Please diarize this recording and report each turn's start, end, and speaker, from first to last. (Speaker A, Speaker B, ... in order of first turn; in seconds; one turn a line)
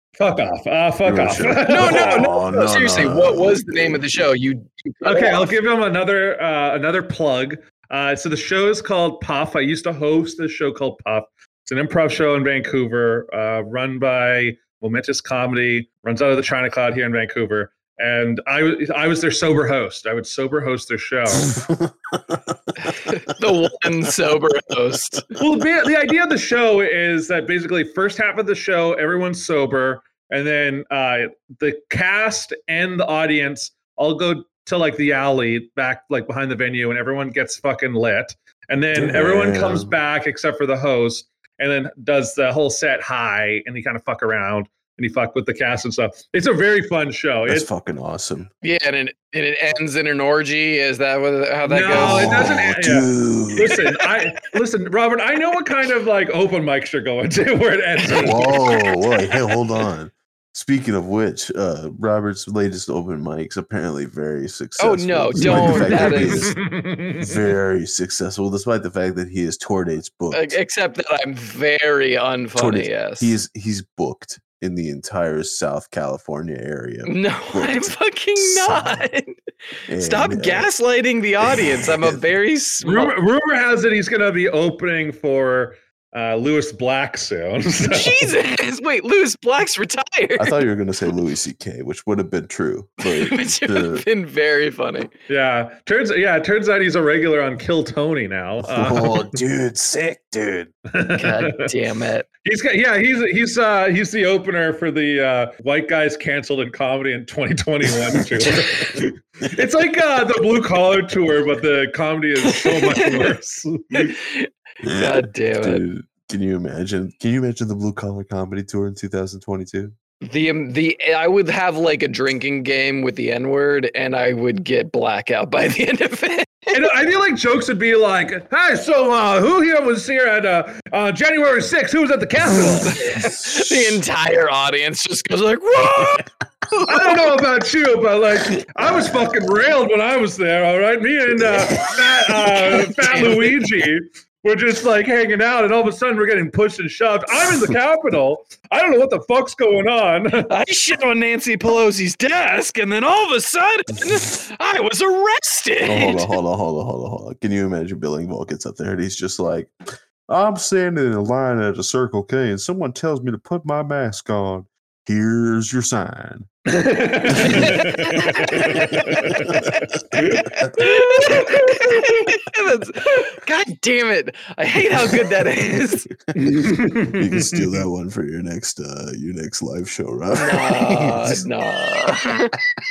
Speaker A: 0.2-2.3
Speaker B: 1.1-4.2
Speaker C: 1.7-5.5
Speaker A: 5.0-21.6
Speaker B: 21.4-23.5
Speaker C: 22.8-25.2
Speaker A: 25.4-47.7
Speaker B: 39.0-39.9
Speaker B: 47.5-48.5
Speaker C: 48.6-52.6
Speaker A: 51.7-58.5
Speaker B: 51.9-53.8
Speaker B: 58.1-66.7
Speaker C: 58.1-59.6
Speaker C: 64.8-66.5
Speaker A: 65.4-67.5
Speaker B: 67.2-70.6
Speaker C: 70.3-73.4
Speaker B: 72.6-79.1
Speaker C: 77.1-83.2
Speaker B: 79.9-80.7
Speaker B: 81.4-82.2
Speaker A: 82.8-88.3
Speaker C: 87.9-90.6
Speaker B: 90.4-94.1
Speaker C: 93.0-95.1
Speaker A: 95.3-99.4
Speaker B: 98.6-100.7
Speaker A: 100.9-101.7
Speaker C: 101.2-102.3
Speaker A: 102.4-114.1
Speaker B: 108.1-108.5
Speaker C: 112.5-113.2
Speaker C: 113.9-115.8
Speaker B: 114.8-120.0
Speaker C: 120.2-126.8
Speaker A: 126.7-133.0
Speaker B: 132.6-134.0
Speaker C: 132.6-137.4
Speaker A: 136.9-150.5
Speaker B: 141.4-141.9
Speaker C: 142.6-143.6
Speaker C: 150.5-156.3
Speaker B: 155.8-159.7
Speaker B: 160.3-166.5
Speaker A: 166.7-172.0
Speaker B: 167.3-170.8
Speaker C: 167.4-169.0
Speaker C: 170.2-176.1
Speaker B: 176.3-181.4
Speaker A: 176.3-177.8
Speaker C: 180.3-182.5